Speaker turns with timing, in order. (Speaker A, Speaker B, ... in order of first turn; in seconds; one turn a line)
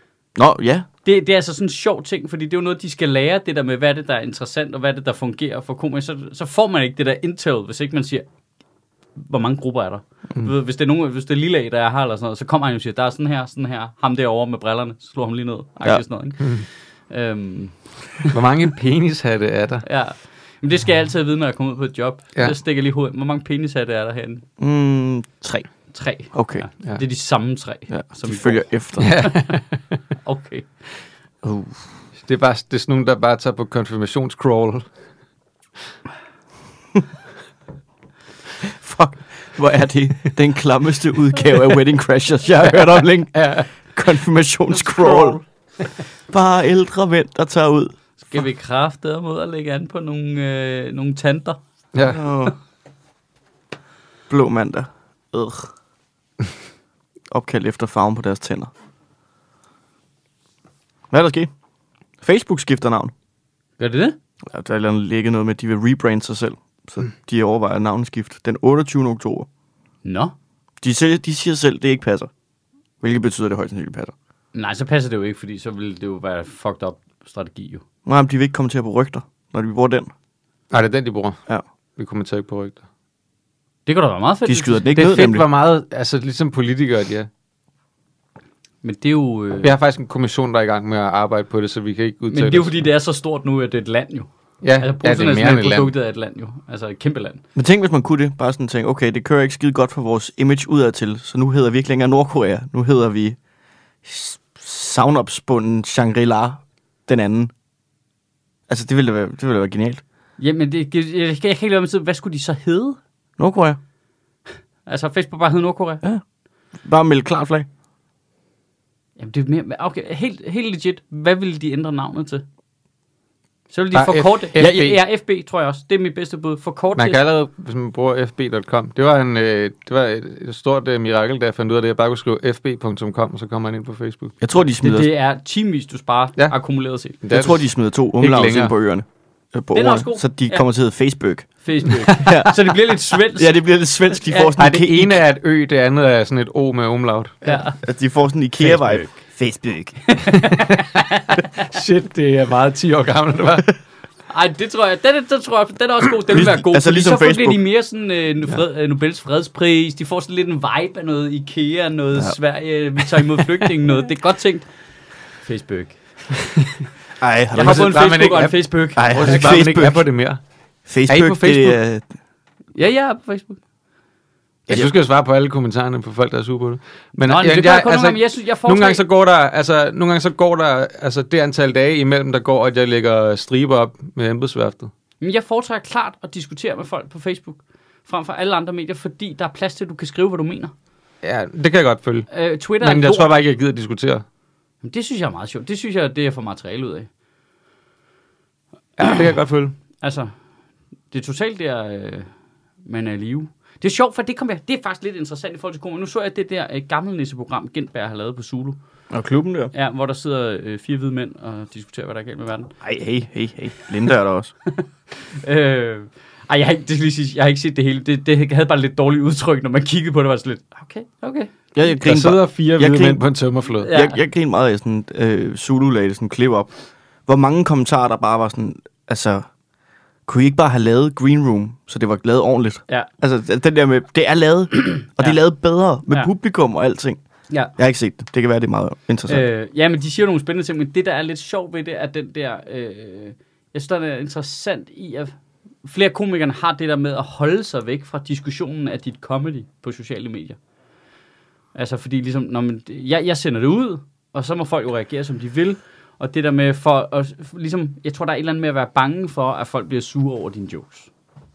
Speaker A: 0.3-0.8
Speaker B: 1.0-8.2
Speaker B: 9.2-18.3
Speaker C: 18.3-19.8
Speaker B: 19.8-24.4
Speaker A: 24.6-25.7
Speaker B: 25.9-29.6
Speaker A: 26.3-26.6
Speaker A: 27.9-29.1
Speaker C: 29.0-29.6
Speaker B: 30.2-30.7
Speaker A: 31.4-31.8
Speaker C: 32.2-34.9
Speaker A: 38.6-45.4
Speaker C: 43.3-43.7
Speaker B: 44.7-45.4
Speaker A: 46.3-47.9
Speaker B: 48.2-51.6
Speaker C: 51.9-52.2
Speaker A: 52.1-52.5
Speaker A: 54.3-55.7
Speaker A: 57.3-58.7
Speaker A: 61.1-61.5
Speaker A: 62.2-63.1
Speaker B: 63.8-64.2
Speaker A: 64.5-69.5
Speaker B: 70.0-70.3
Speaker A: 70.8-72.3
Speaker A: 73.0-74.1
Speaker B: 74.5-77.8
Speaker A: 78.0-80.1
Speaker C: 80.7-81.4
Speaker C: 82.0-82.8
Speaker B: 83.8-85.0
Speaker A: 84.4-85.5
Speaker C: 84.9-87.3
Speaker B: 88.8-89.7
Speaker C: 89.6-92.7
Speaker B: 92.3-97.4
Speaker C: 94.6-95.9
Speaker A: 97.5-103.4
Speaker A: 104.0-107.5
Speaker A: 108.7-110.0
Speaker B: 110.4-113.0
Speaker A: 113.4-113.8
Speaker B: 114.8-116.0
Speaker A: 116.8-117.7
Speaker B: 119.2-122.4
Speaker B: 123.7-127.2
Speaker C: 123.9-125.0
Speaker A: 124.6-124.9
Speaker C: 127.0-134.3
Speaker A: 134.4-135.1
Speaker B: 134.8-137.2
Speaker C: 137.2-137.6
Speaker A: 137.3-145.2
Speaker C: 138.2-138.7
Speaker B: 139.7-140.6
Speaker B: 141.6-143.6
Speaker B: 144.1-144.5
Speaker C: 144.6-147.6
Speaker B: 147.4-147.8
Speaker A: 147.7-150.2
Speaker B: 148.6-149.1
Speaker B: 150.1-151.6
Speaker C: 150.4-151.0
Speaker C: 151.6-153.7
Speaker B: 154.3-164.7
Speaker A: 156.3-157.6
Speaker B: 165.4-166.4
Speaker A: 167.2-167.9
Speaker B: 167.5-169.4
Speaker C: 167.5-170.4
Speaker A: 168.9-170.0
Speaker A: 170.9-172.0
Speaker C: 171.1-171.8
Speaker B: 172.7-173.6
Speaker C: 174.7-184.9
Speaker B: 177.2-179.0
Speaker B: 185.2-190.7
Speaker C: 191.2-192.3
Speaker B: 192.3-193.3
Speaker C: 192.8-194.2
Speaker B: 194.8-197.1
Speaker C: 199.0-199.7
Speaker B: 200.0-200.3
Speaker B: 201.1-202.3
Speaker B: 202.8-208.8
Speaker A: 209.1-209.7
Speaker B: 209.7-212.8
Speaker A: 212.8-214.5
Speaker B: 214.7-221.5
Speaker A: 221.7-223.2
Speaker C: 222.0-223.9
Speaker B: 223.8-224.2
Speaker A: 223.9-226.7
Speaker A: 227.3-229.5
Speaker A: 230.3-237.2
Speaker A: 237.8-239.4
Speaker B: 239.3-250.6
Speaker B: 251.7-261.1